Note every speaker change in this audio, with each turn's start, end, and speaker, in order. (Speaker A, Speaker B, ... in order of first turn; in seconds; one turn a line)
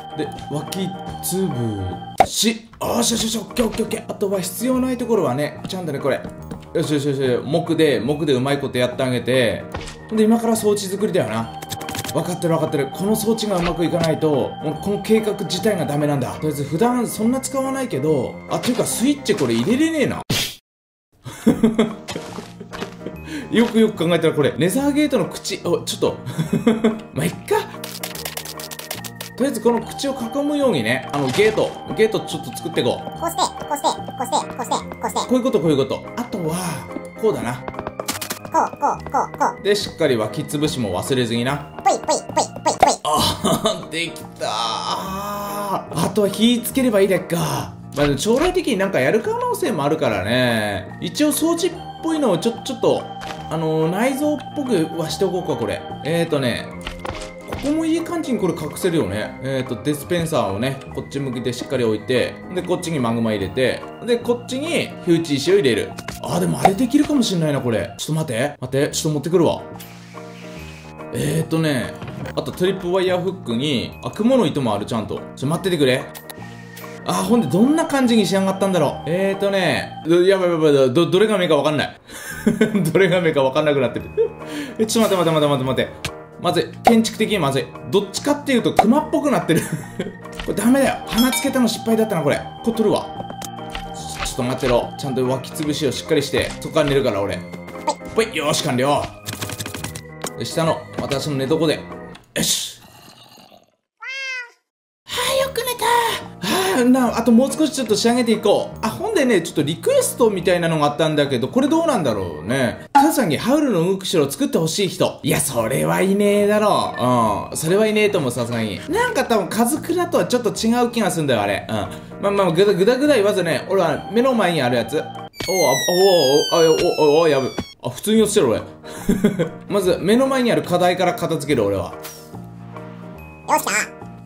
Speaker A: 0.1-11.6
Speaker A: 12.1-20.2
Speaker A: 21.3-22.2
Speaker A: 23.5-27.7
Speaker A: 29.4-33.1
Speaker B: 33.2-35.3
Speaker A: 35.2-37.7
Speaker B: 38.5-39.6
Speaker A: 39.6-41.8
Speaker B: 41.8-43.0
Speaker A: 43.0-56.7
Speaker A: 57.4-69.7
Speaker A: 71.1-76.1
Speaker A: 77.0-93.1
Speaker A: 93.9-97.4
Speaker A: 98.0-99.1
Speaker A: 100.4-102.8
Speaker A: 105.1-132.0
Speaker B: 133.5-133.9